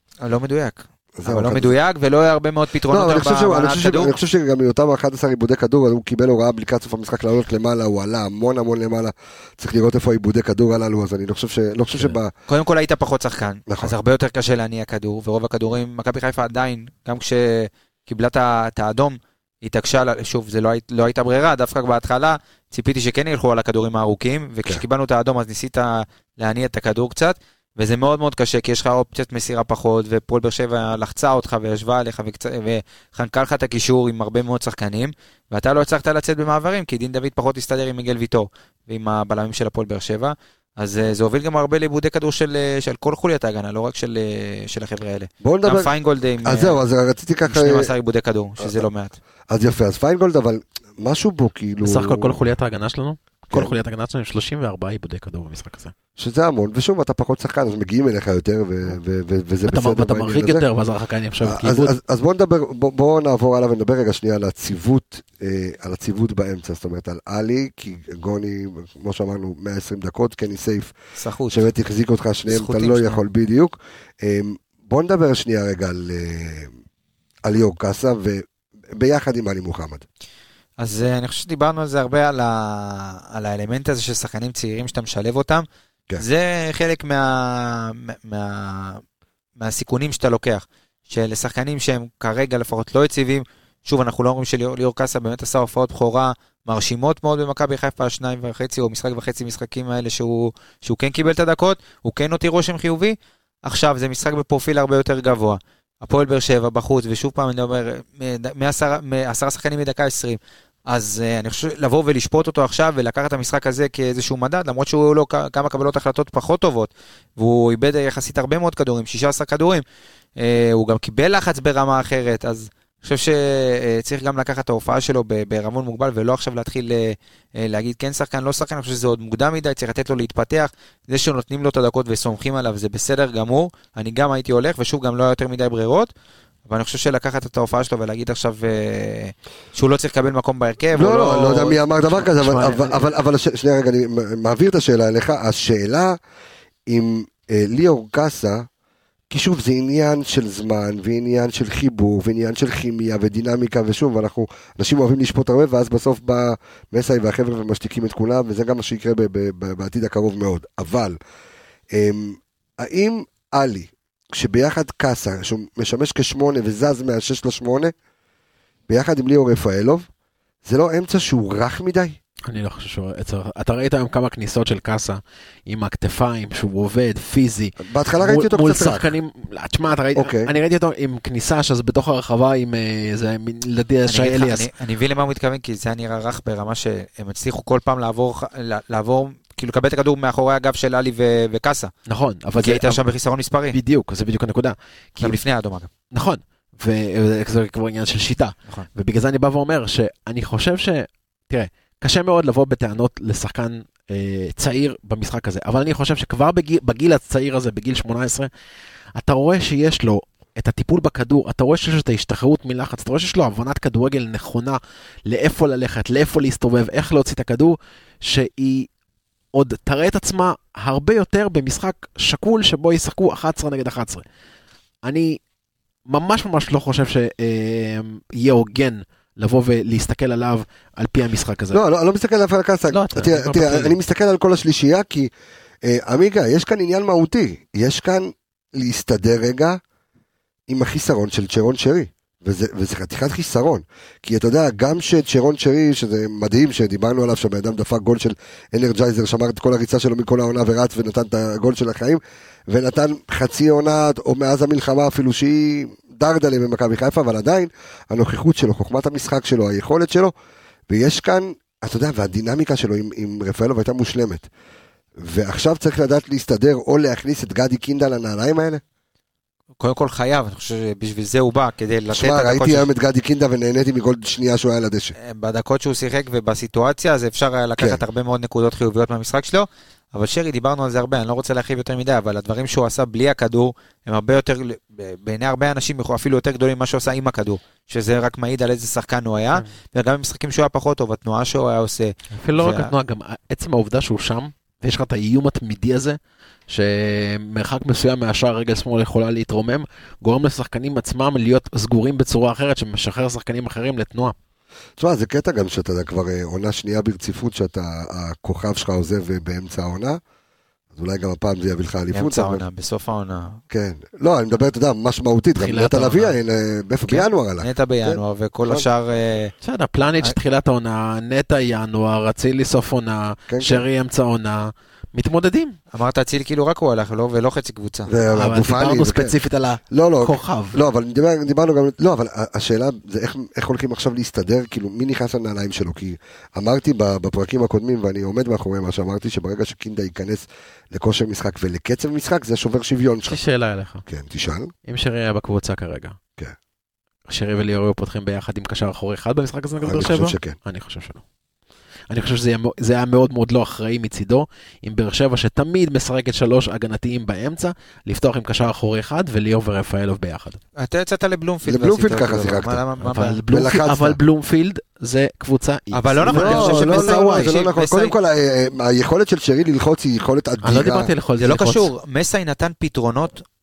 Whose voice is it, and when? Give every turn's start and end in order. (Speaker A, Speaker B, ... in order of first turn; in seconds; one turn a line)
Speaker A: 0.2-4.1
Speaker B: 1.2-1.7
Speaker B: 2.9-12.3
Speaker A: 12.5-46.8
Speaker B: 13.7-13.9
Speaker B: 45.4-45.9
Speaker B: 46.4-47.9
Speaker A: 47.4-49.2
Speaker B: 49.5-52.4
Speaker C: 51.8-55.9
Speaker B: 56.2-60.6
Speaker C: 59.7-62.0
Speaker B: 61.4-70.9
Speaker A: 71.2-71.7
Speaker B: 71.5-76.7
Speaker A: 72.5-73.2
Speaker B: 77.4-80.0
Speaker A: 80.8-85.6
Speaker A: 86.2-89.0
Speaker A: 89.6-119.8
Speaker A: 120.4-136.1
Speaker A: 136.7-141.8
Speaker B: 140.9-146.2
Speaker C: 142.1-143.0
Speaker B: 146.9-148.7
Speaker B: 149.3-161.2
Speaker B: 161.9-167.9
Speaker B: 168.9-170.1
Speaker B: 170.6-172.2
Speaker C: 172.5-184.7
Speaker B: 177.8-179.1
Speaker B: 180.1-180.5
Speaker A: 184.1-191.9
Speaker C: 192.1-193.0
Speaker A: 192.6-193.8
Speaker C: 193.7-195.4
Speaker A: 195.2-195.9
Speaker C: 196.1-208.5
Speaker C: 209.1-218.9
Speaker C: 219.5-224.2
Speaker C: 225.0-225.4
Speaker C: 226.1-231.8
Speaker B: 231.7-235.3
Speaker C: 232.9-234.0
Speaker B: 235.8-239.8
Speaker B: 240.7-260.3
Speaker B: 260.9-264.5
Speaker B: 265.2-268.8
Speaker A: 269.8-272.9
Speaker B: 272.1-275.1
Speaker A: 275.2-292.9
Speaker C: 292.3-304.3
Speaker B: 305.0-310.2
Speaker B: 310.9-312.6
Speaker A: 312.1-313.6
Speaker B: 313.7-318.9
Speaker C: 315.6-316.4
Speaker A: 317.1-319.5
Speaker C: 319.6-325.8
Speaker B: 323.5-323.8
Speaker A: 325.9-328.1
Speaker B: 328.1-329.4
Speaker C: 328.3-330.8
Speaker B: 329.9-343.4
Speaker C: 343.3-344.0
Speaker B: 344.1-344.7
Speaker C: 344.8-346.2
Speaker C: 347.3-351.2
Speaker B: 349.8-350.6
Speaker C: 352.1-360.6
Speaker A: 360.8-363.4
Speaker B: 361.6-362.8
Speaker C: 363.0-367.6
Speaker B: 363.5-364.2
Speaker A: 365.9-368.1
Speaker B: 366.3-371.1
Speaker C: 370.6-371.9
Speaker A: 371.4-373.4